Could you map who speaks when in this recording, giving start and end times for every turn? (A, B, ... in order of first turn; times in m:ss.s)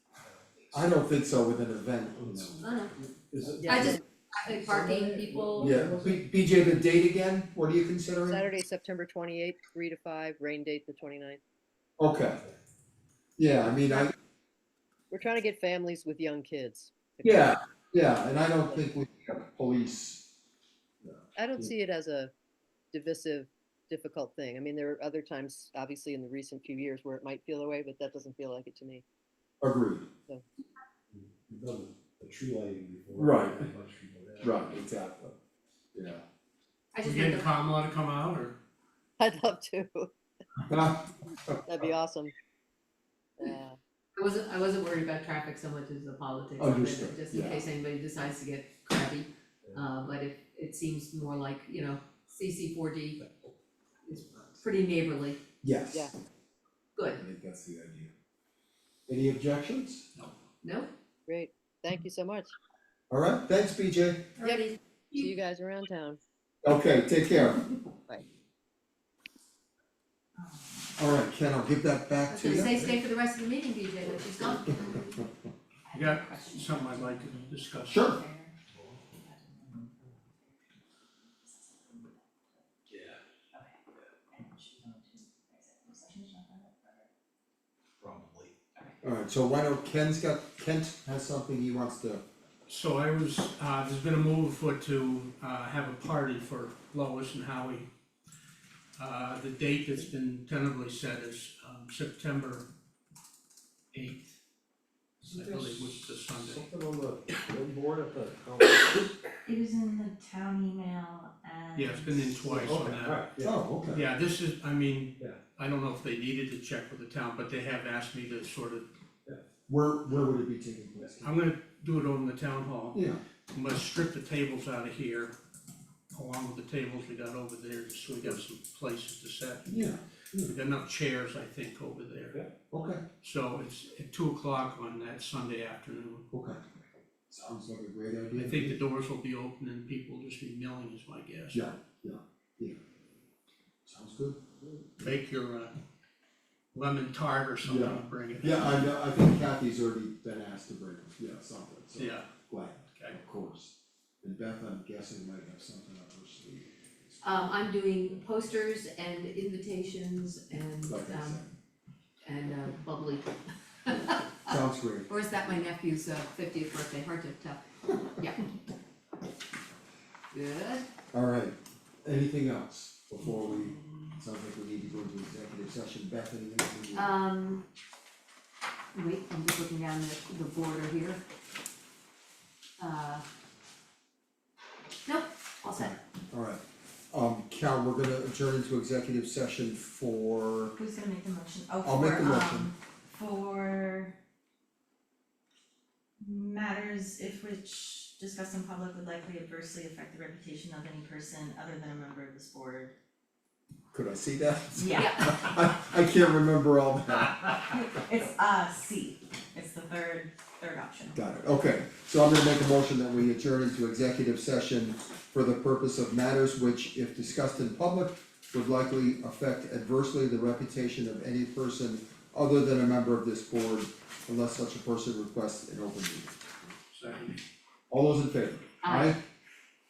0:00.2-0:01.0 A
0:00.7-0:02.6 B
0:02.2-0:06.3 A
0:02.6-0:02.9 C
0:03.6-0:03.9 D
0:03.7-0:05.8 C
0:05.6-0:08.4 B
0:08.3-0:11.4 D
0:12.0-0:12.4 B
0:13.4-0:14.1 B
0:15.1-0:17.6 D
0:17.2-0:20.2 B
0:21.0-0:21.7 B
0:21.4-0:22.3 D
0:22.9-0:29.0 D
0:29.6-0:30.1 B
0:31.1-0:34.7 A
0:33.2-0:33.7 B
0:34.4-0:35.3 B
0:35.9-0:36.2 B
0:36.9-0:37.5 C
0:37.0-0:38.6 E
0:39.2-0:40.1 D
0:40.6-0:41.6 B
0:41.7-0:42.3 D
0:43.4-0:43.8 D
0:44.2-0:53.2 C
0:46.6-0:47.7 B
0:49.6-0:49.9 A
0:54.1-0:55.4 C
0:55.6-0:56.1 B
0:57.0-0:57.2 C
0:57.2-0:58.1 B
0:59.1-1:00.1 B
1:00.6-1:00.9 C
1:01.3-1:02.6 D
1:03.1-1:04.3 B
1:04.4-1:05.3 C
1:04.4-1:06.2 D
1:06.6-1:07.6 B
1:10.4-1:11.2 F
1:11.0-1:13.0 B
1:12.3-1:15.2 C
1:15.9-1:18.6 F
1:15.9-1:18.0 E
1:17.9-1:18.2 B
1:18.7-1:19.0 A
1:19.1-1:22.7 F
1:22.9-1:23.2 A
1:23.5-1:27.1 F
1:28.0-1:28.5 A
1:29.0-1:32.2 B
1:32.7-1:37.9 E
1:39.0-1:42.7 E
1:43.9-1:44.4 E
1:45.2-1:46.7 E
1:45.3-1:45.8 A
1:46.4-1:49.1 A
1:49.5-1:52.5 F
1:51.7-1:53.3 E
1:52.4-1:53.5 A
1:53.4-1:54.1 B
1:53.9-1:58.9 E
1:59.7-2:01.3 B
2:01.2-2:05.4 E
2:02.9-2:03.2 B
2:06.1-2:09.7 E
2:09.7-2:10.5 B
2:10.5-2:12.4 E
2:12.7-2:13.0 B
2:13.2-2:16.3 E
2:16.3-2:16.6 B
2:17.3-2:18.8 B
2:18.4-2:21.7 E
2:21.5-2:22.8 B
2:23.9-2:24.4 B
2:25.0-2:25.8 E
2:26.7-2:28.8 E
2:27.6-2:37.1 B
2:32.0-2:32.3 E
2:32.9-2:33.2 E
2:37.2-2:41.4 C
2:40.9-2:41.5 B
2:42.2-2:43.4 C
2:43.9-2:44.5 C
2:44.5-2:45.6 B
2:45.1-2:47.6 C
2:48.2-2:48.5 C
2:50.3-2:50.8 C
2:51.1-2:57.1 B
2:53.4-2:54.1 F
2:56.9-2:57.6 C
2:58.9-3:01.2 C
3:02.8-3:03.2 C
3:05.1-3:06.0 C
3:05.8-3:10.7 B
3:10.8-3:14.1 F
3:11.8-3:12.7 B
3:16.2-3:22.9 F
3:23.9-3:27.6 B
3:24.8-3:25.5 F
3:25.0-3:25.4 C
3:27.6-3:31.2 F
3:31.2-3:46.7 B
3:46.9-3:47.4 E
3:47.9-3:49.2 B
3:48.8-3:49.2 C